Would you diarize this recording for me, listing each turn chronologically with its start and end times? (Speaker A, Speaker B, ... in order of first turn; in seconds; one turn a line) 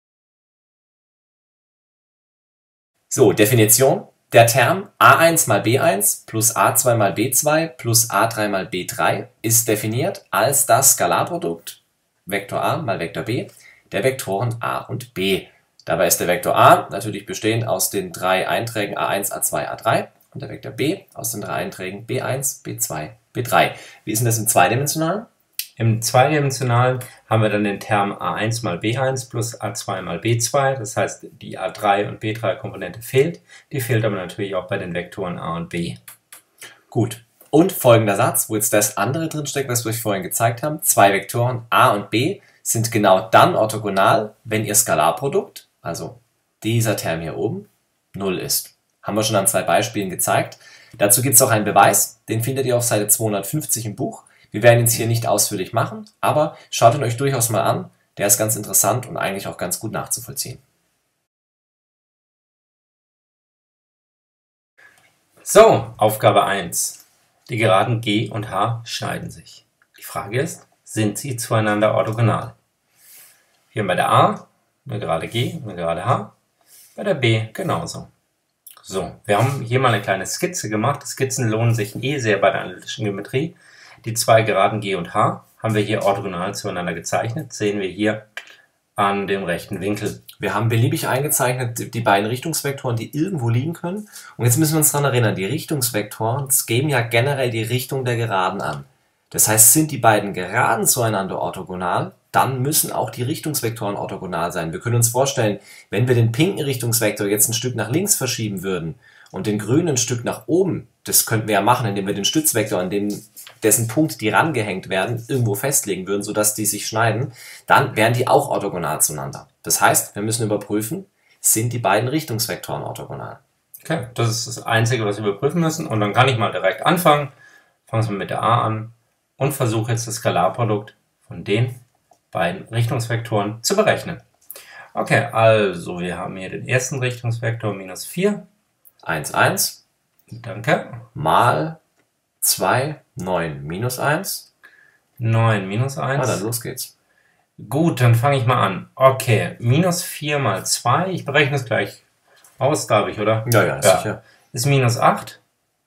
Speaker A: 3.1-25.3
Speaker B: 25.8-36.0
Speaker A: 36.9-60.6
Speaker B: 65.4-72.5
Speaker B: 73.7-76.3
Speaker B: 77.0-78.1
Speaker B: 78.8-88.3
Speaker B: 89.0-90.2
Speaker A: 90.4-123.4
Speaker B: 123.8-127.3
Speaker B: 127.9-134.2
Speaker B: 134.9-138.5
Speaker A: 139.0-139.8
Speaker B: 140.3-141.1
Speaker A: 141.1-141.8
Speaker A: 142.4-144.5
Speaker B: 145.2-146.4
Speaker A: 146.2-146.9
Speaker B: 147.6-152.0
Speaker B: 152.6-155.4
Speaker A: 153.4-154.2